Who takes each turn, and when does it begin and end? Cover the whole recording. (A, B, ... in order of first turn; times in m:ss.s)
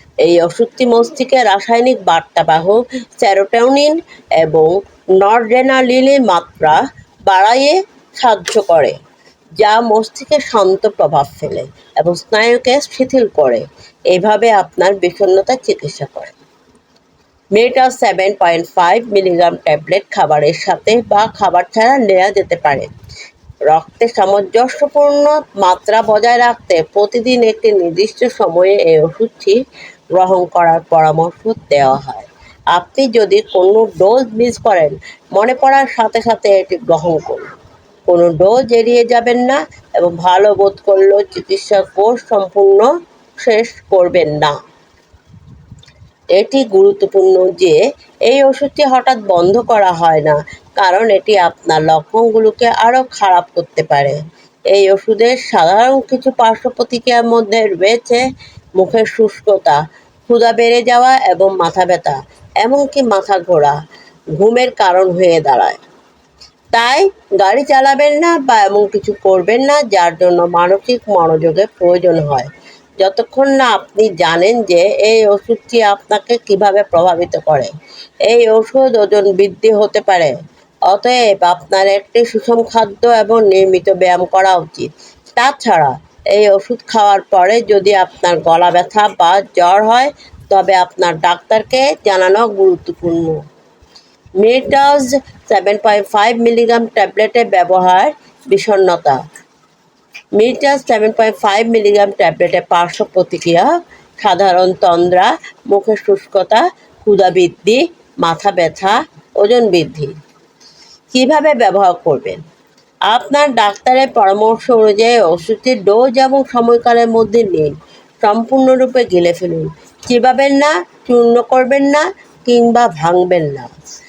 0:00.2-0:09.0 A
0:09.6-0:16.4 A
0:17.5-0:22.9 A
0:23.7-0:29.6 A
0:30.1-0:37.5 A
0:38.1-0:42.9 A
0:43.4-0:44.6 A
0:46.3-0:54.2 A
0:54.7-0:58.2 A
0:58.8-1:03.8 A
1:04.4-1:05.8 A
1:06.7-1:17.7 A
1:18.2-1:20.3 A
1:20.9-1:33.4 A
1:34.4-1:39.2 A
1:40.4-1:50.2 A
1:51.1-1:52.4 A
1:53.1-2:03.7 A